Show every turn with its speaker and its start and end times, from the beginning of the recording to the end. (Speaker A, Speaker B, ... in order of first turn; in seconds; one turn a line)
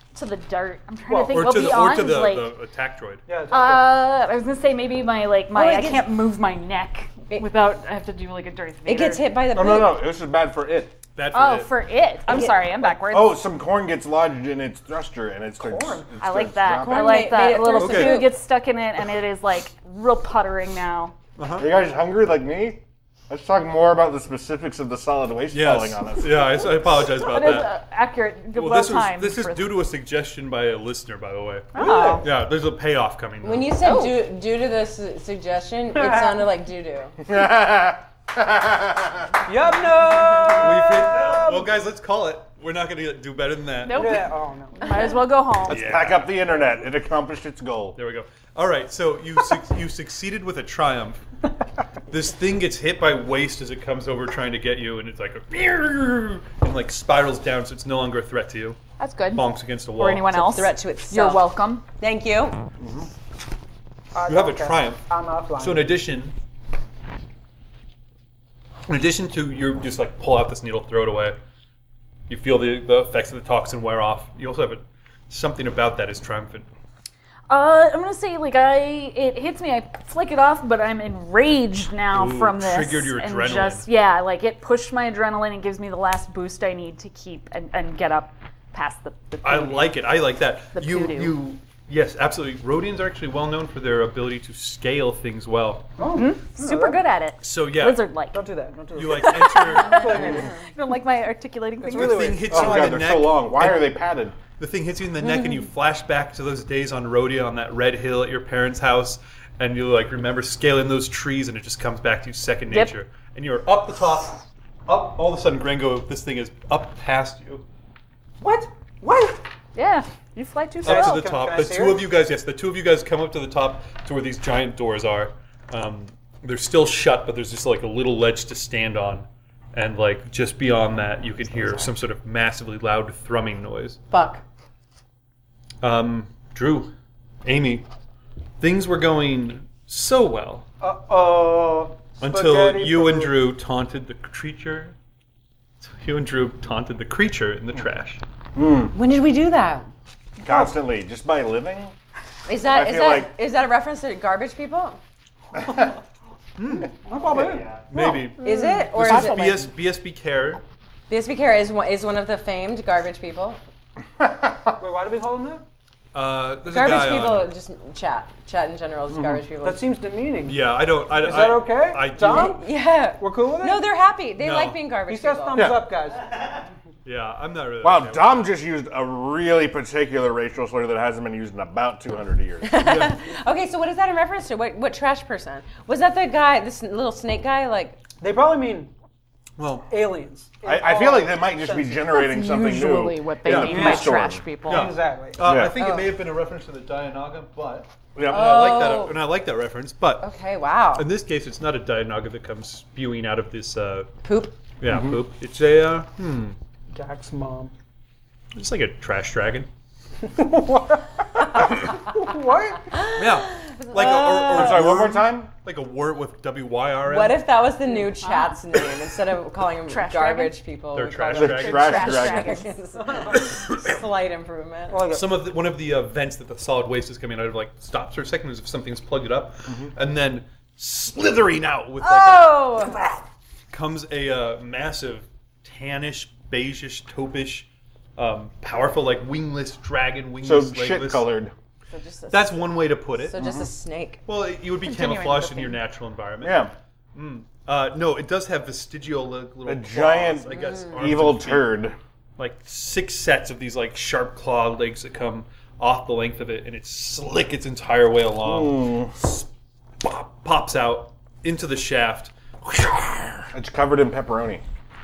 Speaker A: 0.1-2.5
Speaker B: 1.3-3.2
Speaker C: 3.2-3.9
Speaker A: 3.5-9.3
Speaker D: 5.5-6.1
Speaker D: 8.8-10.0
Speaker E: 9.5-11.0
Speaker B: 11.2-11.7
Speaker A: 11.3-13.4
Speaker D: 12.3-12.6
Speaker E: 12.9-17.4
Speaker C: 15.6-16.1
Speaker A: 16.2-21.1
Speaker D: 16.8-18.3
Speaker B: 17.7-18.2
Speaker B: 21.4-21.7
Speaker E: 21.6-26.7
Speaker B: 25.5-27.7
Speaker A: 27.1-29.8
Speaker B: 28.5-33.8
Speaker A: 31.7-32.3
Speaker C: 31.8-32.2
Speaker D: 33.4-37.2
Speaker A: 33.8-34.2
Speaker C: 35.9-36.4
Speaker E: 37.2-39.4
Speaker C: 39.5-41.7
Speaker D: 40.3-40.7
Speaker B: 40.5-44.2
Speaker A: 43.8-45.8
Speaker C: 43.9-45.1
Speaker B: 45.7-46.4
Speaker E: 45.7-48.0
Speaker B: 47.9-51.2
Speaker B: 52.1-58.8
Speaker A: 59.0-61.8
Speaker B: 59.3-60.3
Speaker D: 60.3-61.5
Speaker D: 62.0-62.6
Speaker E: 62.8-63.1
Speaker C: 64.1-65.9
Speaker B: 64.2-65.0
Speaker B: 65.6-66.3
Speaker B: 68.9-71.4
Speaker B: 72.3-76.7
Speaker A: 77.5-89.7
Speaker B: 82.1-83.9
Speaker B: 89.4-96.0
Speaker A: 90.8-91.3
Speaker C: 96.0-97.0
Speaker A: 96.1-98.5
Speaker B: 97.4-98.0
Speaker C: 98.3-100.5
Speaker B: 98.9-100.5
Speaker A: 99.2-102.4
Speaker C: 101.8-102.9
Speaker B: 101.8-104.0
Speaker E: 102.5-104.4
Speaker B: 104.5-117.6
Speaker C: 118.4-119.4
Speaker A: 119.7-121.3
Speaker B: 120.8-134.0
Speaker C: 120.8-122.1
Speaker D: 131.5-131.9
Speaker D: 134.1-134.4
Speaker B: 135.8-136.9
Speaker B: 137.4-137.8
Speaker B: 138.6-140.7
Speaker C: 140.8-143.3
Speaker B: 142.2-144.9
Speaker B: 145.8-148.2
Speaker E: 148.5-148.9
Speaker D: 148.9-149.9
Speaker E: 150.4-151.9
Speaker C: 150.4-150.7
Speaker D: 152.4-155.0
Speaker E: 152.6-153.3
Speaker B: 156.6-156.9
Speaker C: 156.9-157.8
Speaker E: 157.3-157.7
Speaker B: 157.8-160.6
Speaker D: 157.9-159.7
Speaker D: 161.1-163.6
Speaker E: 164.2-164.8
Speaker C: 164.8-165.6
Speaker B: 166.1-167.5
Speaker D: 166.6-169.8
Speaker E: 169.1-169.4
Speaker C: 169.6-170.6
Speaker B: 170.4-172.6
Speaker C: 171.1-172.6
Speaker D: 172.2-175.8
Speaker C: 173.2-173.9
Speaker B: 174.4-174.8
Speaker C: 175.1-176.2
Speaker E: 175.5-175.8
Speaker B: 177.0-178.5
Speaker E: 177.8-182.8
Speaker D: 182.6-188.0
Speaker B: 182.8-183.2
Speaker C: 188.2-188.9
Speaker B: 189.6-189.9
Speaker C: 189.9-192.1
Speaker E: 190.6-194.4
Speaker A: 192.1-194.9
Speaker B: 193.4-200.3
Speaker C: 193.7-194.1
Speaker C: 194.7-195.4
Speaker E: 195.4-195.8
Speaker D: 195.7-196.1
Speaker E: 198.2-198.6
Speaker D: 198.2-199.2
Speaker D: 200.2-201.1
Speaker B: 200.9-204.1
Speaker D: 204.2-204.5
Speaker B: 204.8-206.6
Speaker E: 204.9-205.2
Speaker C: 206.9-207.7
Speaker B: 208.5-209.7
Speaker C: 210.2-212.9
Speaker D: 212.9-214.9
Speaker B: 213.2-217.4
Speaker E: 214.4-215.5
Speaker D: 217.0-225.1
Speaker A: 218.2-218.6
Speaker A: 219.9-220.6
Speaker B: 220.9-222.1
Speaker E: 221.3-222.6
Speaker A: 221.5-222.7
Speaker C: 223.0-223.5
Speaker B: 223.3-223.9
Speaker C: 224.9-225.2
Speaker B: 225.1-232.9
Speaker D: 232.0-233.2
Speaker B: 233.7-241.3
Speaker E: 240.4-241.5
Speaker D: 241.9-244.2
Speaker B: 242.3-243.4
Speaker E: 243.3-243.7
Speaker B: 244.3-251.8
Speaker A: 244.8-245.8
Speaker E: 246.4-246.7
Speaker E: 249.7-252.0
Speaker B: 252.4-259.4
Speaker E: 258.4-259.2
Speaker B: 260.0-263.5
Speaker E: 263.5-264.6